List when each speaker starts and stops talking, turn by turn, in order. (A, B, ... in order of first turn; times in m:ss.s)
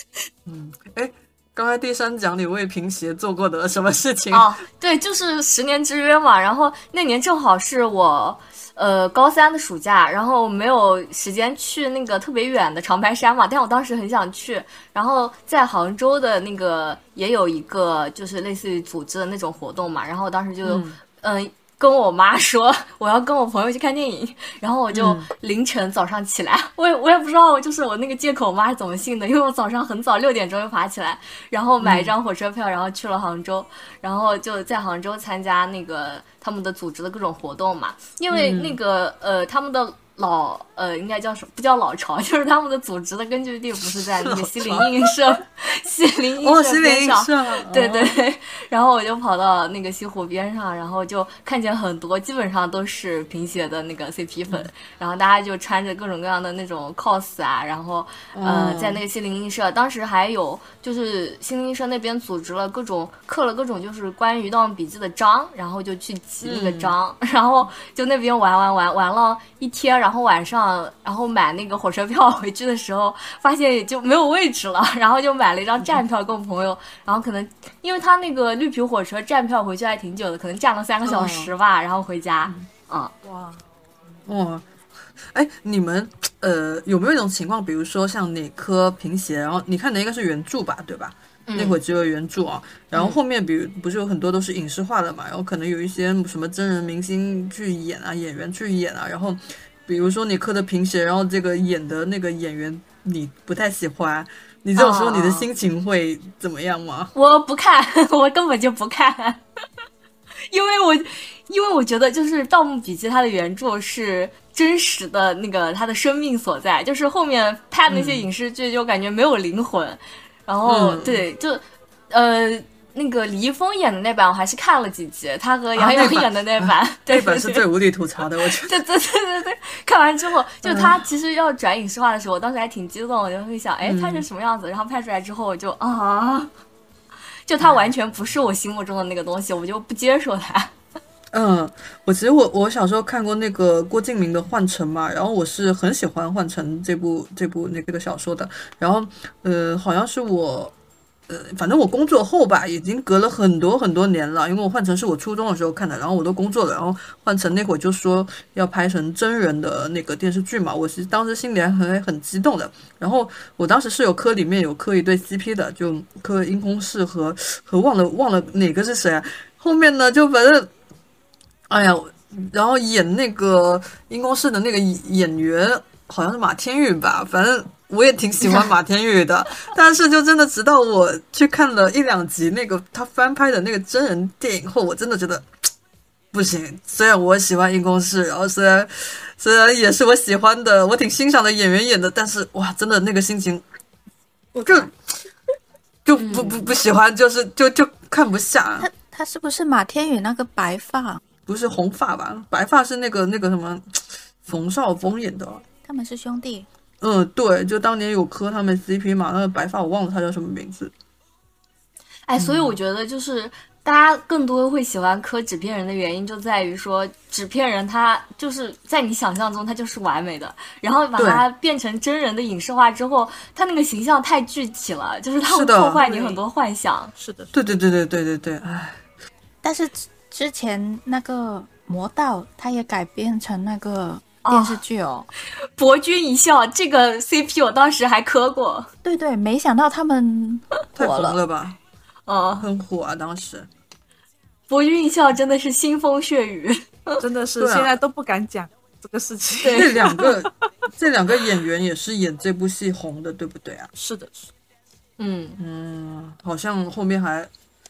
0:00.4-0:04.5 A
0:04.3-1:23.1 B
0:20.6-0:21.0 A
0:24.9-0:25.3 A
0:31.8-0:32.1 A
0:38.3-0:38.8 A
0:44.2-0:45.0 A
0:46.4-0:48.2 A
0:58.3-0:59.0 A
1:06.4-1:06.9 A
1:21.0-1:21.5 A
1:23.2-1:23.6 C
1:24.2-1:24.6 A
1:25.3-1:47.1 A
1:31.5-1:31.8 B
1:32.9-1:33.2 B
1:44.8-1:45.5 B
1:47.1-1:49.4 B
1:50.5-2:07.6 B
1:57.9-1:58.3 A
2:00.6-2:01.2 A
2:05.7-2:08.8 A
2:08.4-2:16.5 B
2:10.6-2:11.0 A
2:13.8-2:14.2 A
2:17.5-2:20.7 B
2:21.3-2:30.7 A
2:31.3-2:50.7 A
2:51.7-3:05.4 A
3:06.3-3:13.6 A
3:14.6-3:14.9 A
3:16.0-3:18.9 A
3:16.2-3:16.6 B
3:18.8-3:21.2 D
3:21.5-3:23.8 A
3:24.4-3:25.6 A
3:25.8-3:26.7 D
3:27.0-3:30.9 A
3:32.3-3:47.1 B
3:32.4-3:32.8 A
3:41.2-3:41.4 A
3:45.4-3:46.0 A
3:46.0-3:46.4 C
3:47.2-3:47.5 C
3:47.5-3:49.0 A
3:49.6-3:55.3 D
3:54.4-3:54.8 B
3:55.8-3:58.9 B
3:59.0-4:01.4 D
4:01.0-4:01.8 A
4:02.3-4:02.7 B
4:02.6-4:03.7 A
4:04.7-4:07.2 B
4:07.2-4:10.3 C
4:07.6-4:07.9 A
4:09.6-4:10.1 B
4:09.7-4:13.9 A
4:14.0-4:14.5 C
4:15.2-4:15.6 B
4:15.6-4:17.5 A